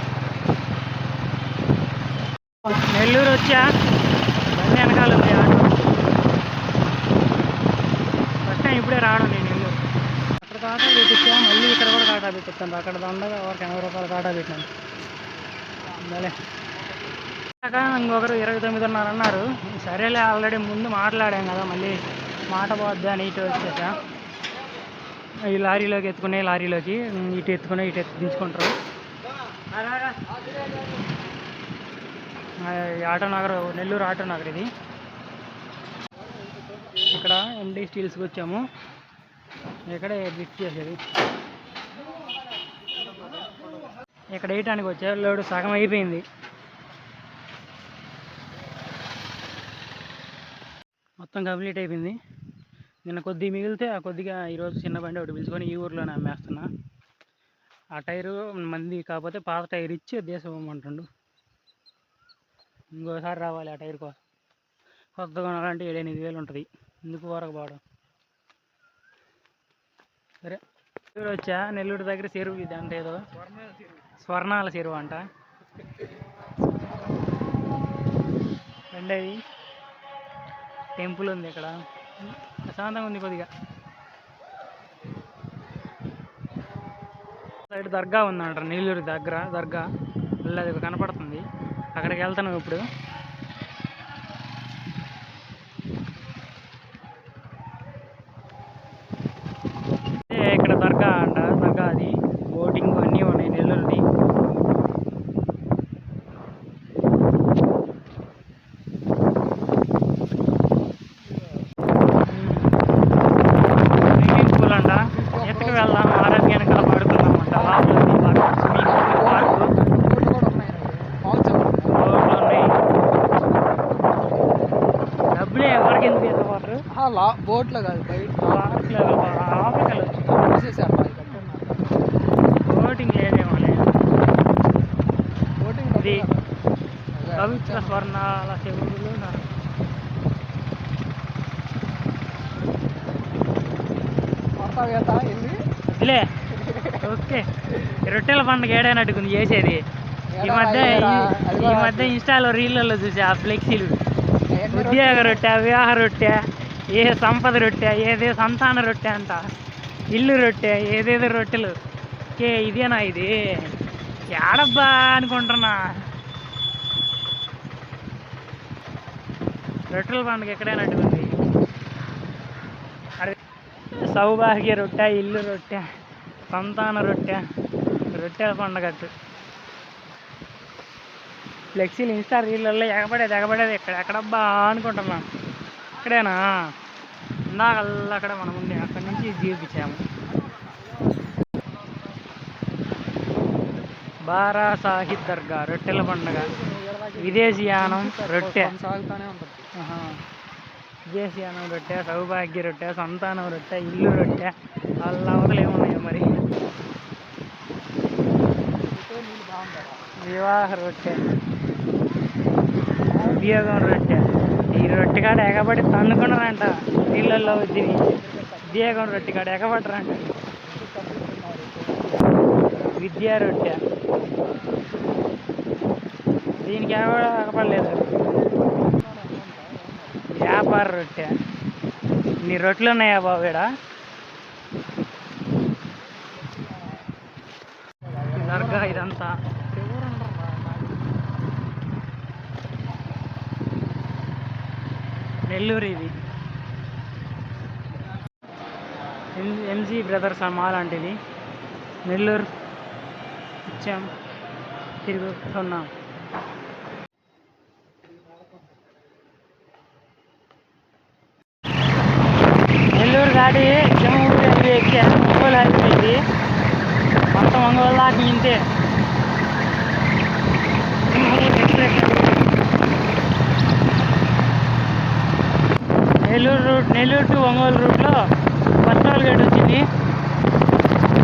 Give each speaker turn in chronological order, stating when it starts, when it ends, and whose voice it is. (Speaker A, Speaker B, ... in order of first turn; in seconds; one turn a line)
Speaker A: 2.6-3.6
Speaker A: 4.5-5.9
Speaker A: 8.4-9.8
Speaker A: 10.4-14.7
Speaker A: 16.0-16.4
Speaker A: 17.6-22.0
Speaker A: 22.5-24.0
Speaker A: 25.5-28.7
Speaker A: 32.6-34.7
Speaker A: 37.1-38.6
Speaker A: 39.9-41.0
Speaker A: 44.3-46.2
Speaker A: 51.2-52.2
Speaker A: 53.0-56.7
Speaker A: 58.0-61.1
Speaker A: 62.9-64.2
Speaker A: 65.2-67.8
Speaker A: 71.1-73.3
Speaker A: 74.0-75.3
Speaker A: 78.9-79.4
Speaker A: 81.0-83.5
Speaker A: 87.7-89.8
Speaker A: 90.4-92.8
Speaker A: 100.3-104.0
Speaker A: 112.3-112.7
Speaker A: 114.0-119.8
Speaker B: 115.0-117.9
Speaker B: 118.7-122.0
Speaker A: 121.9-122.8
Speaker B: 123.2-123.6
Speaker A: 125.3-126.8
Speaker B: 126.9-128.9
Speaker A: 128.4-130.4
Speaker B: 130.3-132.0
Speaker A: 132.6-133.9
Speaker B: 135.6-136.5
Speaker A: 136.0-136.3
Speaker B: 137.1-138.1
Speaker A: 137.3-139.5
Speaker B: 144.6-145.6
Speaker A: 145.9-146.3
Speaker B: 146.5-147.0
Speaker A: 146.9-149.8
Speaker B: 150.3-152.2
Speaker A: 150.4-153.9
Speaker B: 154.5-155.4
Speaker A: 154.7-156.4
Speaker A: 156.9-159.4
Speaker A: 160.1-161.7
Speaker A: 162.4-163.7
Speaker A: 164.3-165.8
Speaker A: 169.9-171.3
Speaker A: 173.9-175.8
Speaker A: 176.5-177.4
Speaker A: 178.1-179.1
Speaker A: 181.7-185.2
Speaker A: 185.9-186.5
Speaker A: 187.5-190.0
Speaker A: 194.3-196.5
Speaker B: 196.3-199.7
Speaker A: 197.2-198.7
Speaker A: 199.8-200.2
Speaker A: 201.1-206.3
Speaker B: 208.8-210.2
Speaker A: 210.2-211.2
Speaker B: 213.1-213.7
Speaker A: 213.2-218.1
Speaker B: 217.2-219.4
Speaker A: 218.7-220.3
Speaker B: 220.6-222.3
Speaker A: 222.8-223.8
Speaker A: 226.6-228.1
Speaker B: 228.3-230.3
Speaker A: 230.3-231.3
Speaker A: 232.4-233.7
Speaker B: 238.1-239.1
Speaker A: 238.3-239.3
Speaker B: 239.7-241.0
Speaker A: 245.5-246.2
Speaker A: 249.3-251.2
Speaker A: 252.1-252.5
Speaker A: 253.7-254.1
Speaker A: 255.0-255.9
Speaker A: 262.9-266.2
Speaker A: 267.3-268.6
Speaker A: 271.1-272.3
Speaker A: 276.2-278.2
Speaker A: 278.8-279.8